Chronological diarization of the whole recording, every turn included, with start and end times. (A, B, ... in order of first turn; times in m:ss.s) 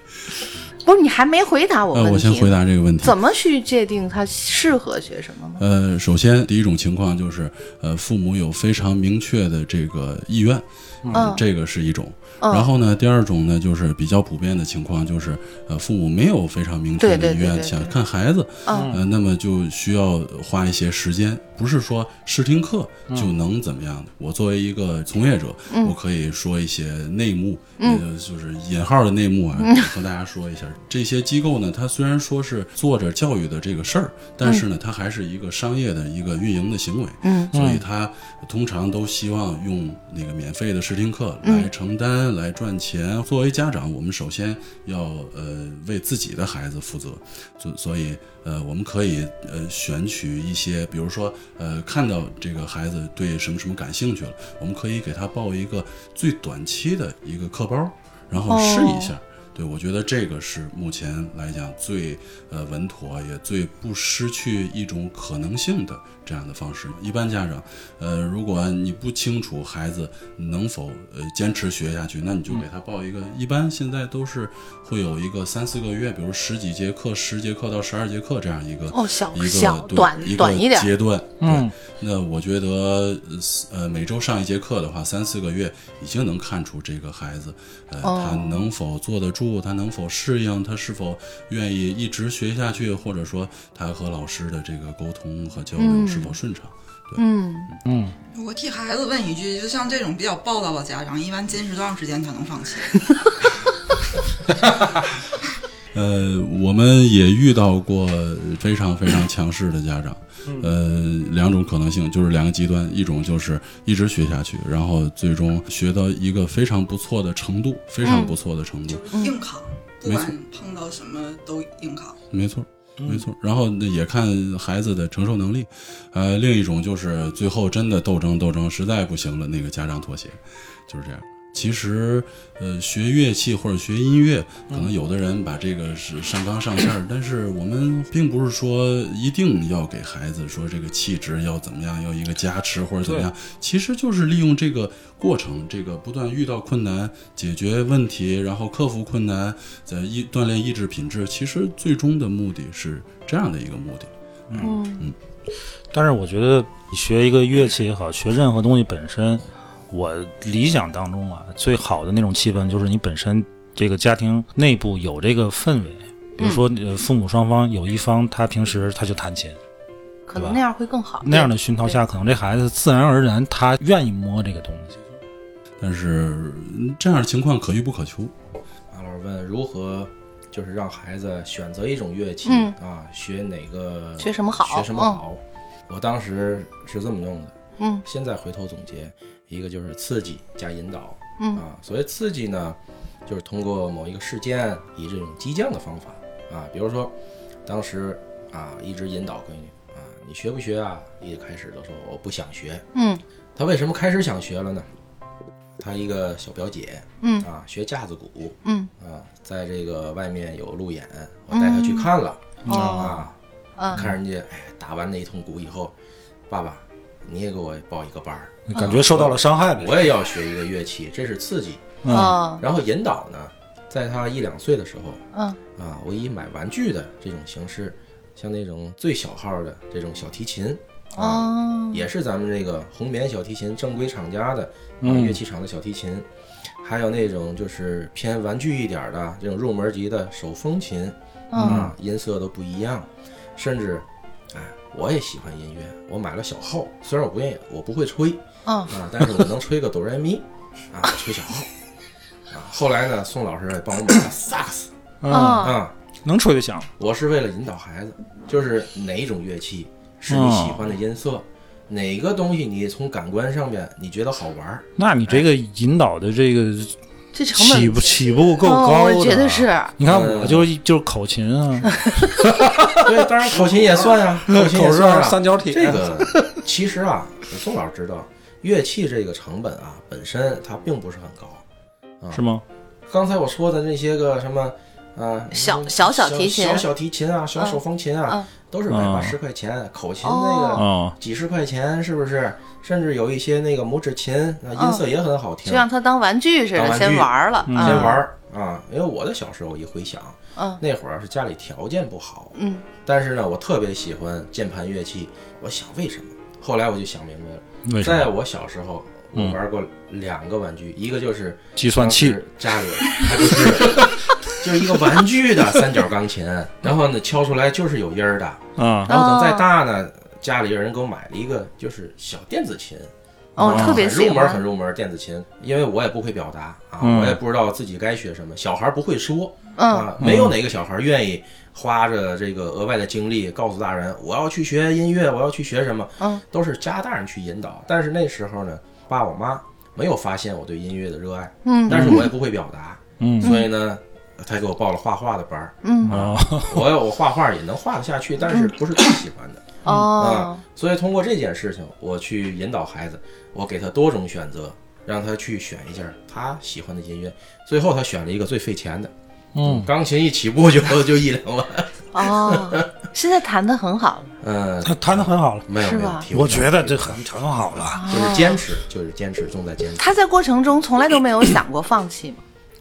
0:00.8-0:05.6 A
0:01.9-0:03.2 B
0:05.6-1:37.8 B
0:11.0-0:11.4 C
0:11.1-0:11.4 A
0:12.4-0:12.7 A
0:17.0-0:17.9 A
0:18.7-0:19.0 C
0:29.6-0:29.9 A
0:37.2-0:37.5 A
0:37.5-0:37.8 C
0:41.4-0:41.7 A
0:58.5-0:59.1 A
1:18.9-1:20.9 A
1:21.4-1:21.7 C
1:28.0-1:28.6 A
1:35.8-1:36.4 A
1:37.2-1:37.7 A
1:37.8-1:38.2 C
1:38.3-1:43.0 D
1:45.9-1:59.2 B
1:58.0-1:58.3 A
1:58.9-2:02.2 D
1:59.2-1:59.4 A
2:00.0-2:00.3 B
2:02.3-2:35.2 B
2:03.0-2:03.2 C
2:23.0-2:23.3 C
2:34.6-2:35.1 A
2:35.9-2:49.6 C
2:50.3-2:52.0 A
2:51.2-2:55.0 C
2:55.8-2:58.3 B
2:58.9-3:17.1 E
3:02.5-3:02.8 A
3:04.2-3:05.2 A
3:07.8-3:08.0 A
3:17.7-3:22.8 E
3:23.0-3:23.2 A
3:23.6-3:24.9 E
3:25.8-3:33.4 E
3:27.2-3:27.5 A
3:28.6-3:28.9 A
3:31.5-3:32.1 A
3:32.6-3:33.2 C
3:32.7-3:33.2 A
3:33.8-3:34.1 A
3:33.9-3:36.0 E
3:36.5-3:45.2 E
3:38.7-3:39.9 C
3:42.0-3:42.4 C
3:42.1-3:42.6 A
3:45.8-3:56.3 E
3:51.2-3:52.0 A
3:55.0-3:55.4 C
3:56.8-4:11.7 E
4:01.5-4:01.8 A
4:01.6-4:01.9 C
4:08.7-4:09.0 A
4:12.5-4:14.9 E
4:15.2-4:16.9 C
4:15.3-4:15.8 A
4:15.6-4:15.9 E
4:17.0-4:25.4 E
4:20.3-4:20.8 C
4:25.0-4:27.0 C
4:27.4-4:30.0 A
4:27.5-4:36.6 C
4:30.0-4:30.7 E
4:32.9-4:41.6 E
4:42.3-4:42.6 C
4:43.1-4:55.9 E
4:45.5-4:46.9 A
4:47.6-4:48.4 A
4:48.9-4:49.4 C
4:50.2-4:50.8 A
4:50.8-4:51.2 C
4:54.8-4:55.0 A
4:55.7-4:58.2 A
4:56.7-5:59.1 E
4:57.7-4:58.2 C
5:02.6-5:02.8 A
5:07.9-5:08.3 C
5:11.8-5:12.4 C
5:18.8-5:19.1 C
5:19.1-5:19.7 A
5:23.6-5:24.6 A
5:23.6-5:24.0 C
5:27.0-5:27.4 C
5:29.8-5:30.2 A
5:30.2-5:30.6 C
5:41.6-5:42.3 A
5:41.9-5:42.2 C
5:43.2-5:43.5 C
5:43.4-5:43.7 A
5:45.8-5:46.1 A
5:46.1-5:46.9 C
5:49.8-5:50.6 A
5:59.6-5:59.9 C
5:59.6-6:02.9 E
6:02.1-6:04.3 A
6:04.4-6:10.1 E
6:04.8-6:05.7 C
6:05.8-6:06.3 A
6:06.3-6:08.0 C
6:07.9-6:08.6 A
6:10.0-6:12.4 A